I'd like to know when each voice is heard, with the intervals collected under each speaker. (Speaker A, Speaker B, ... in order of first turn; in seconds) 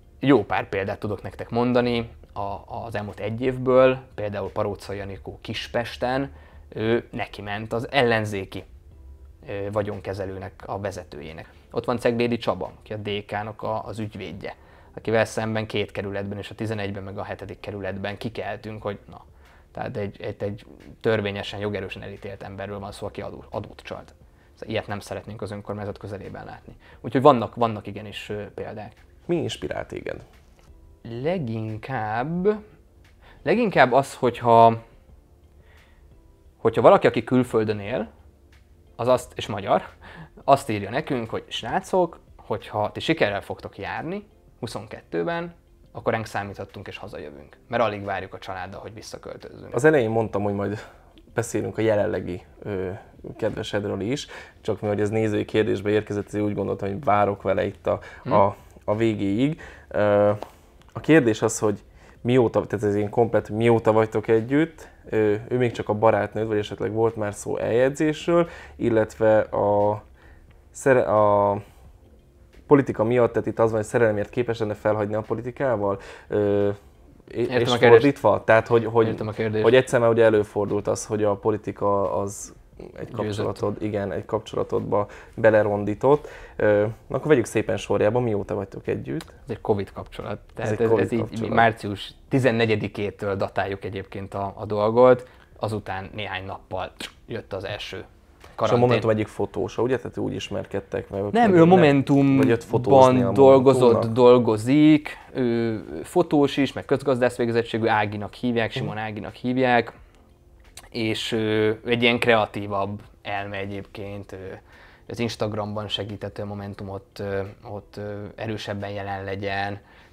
Speaker A: 0.2-8.7, 9.4-29.0, 31.1-32.6, 33.4-34.8, 36.6-38.1, 39.0-39.9, 40.5-49.8, 77.5-78.1, 79.0-79.8, 83.1-83.6, 89.5-98.1, 98.6-99.1, 101.3-109.9, 110.9-119.8
Speaker B: 29.3-30.2, 49.7-50.8, 51.3-60.4, 61.0-70.0, 70.7-71.6, 72.7-76.8, 77.3-89.3, 90.6-91.7, 98.6-104.1